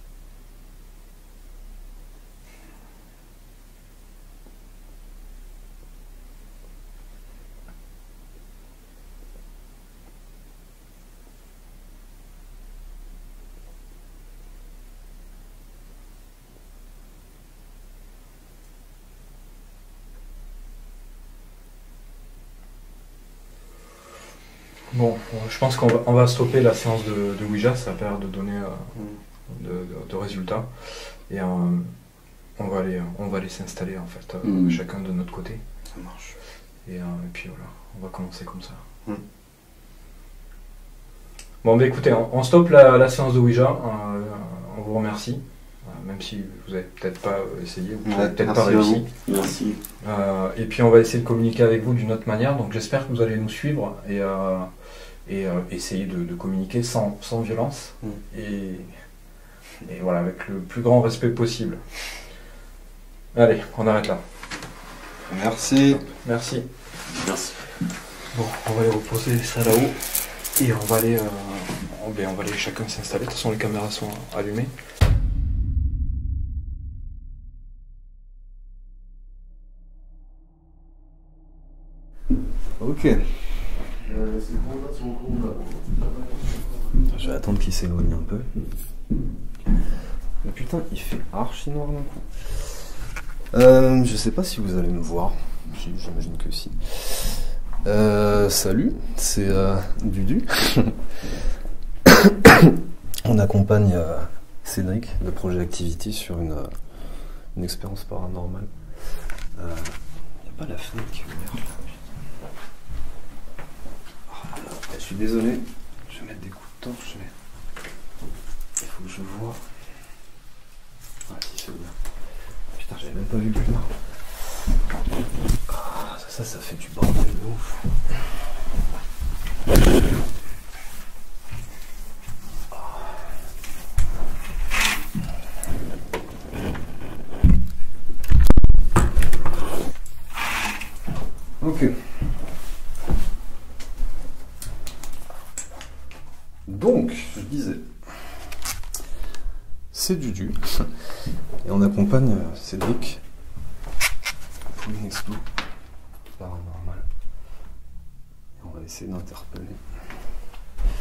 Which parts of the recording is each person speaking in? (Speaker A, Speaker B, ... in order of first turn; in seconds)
Speaker A: 24.9-28.9, 29.5-31.9, 32.6-35.6, 36.8-38.8, 41.6-49.1, 50.0-54.7, 55.3-58.9, 59.9-61.8, 63.3-64.2, 66.2-66.7, 68.3-74.7
Speaker B: 34.4-34.8, 48.1-49.8, 67.1-67.6, 84.1-87.1
Speaker C: 35.9-36.4, 65.3-66.1, 82.8-83.4, 87.1-88.5, 90.4-92.9, 93.5-101.0, 102.1-106.7, 107.5-108.7, 109.5-112.0, 114.3-117.3, 118.8-119.7, 121.3-122.0, 122.7-124.2, 125.7-128.1, 132.7-133.1, 141.6-142.3, 146.7-148.3, 149.9-153.2, 154.7-155.5, 156.3-157.1, 158.6-159.8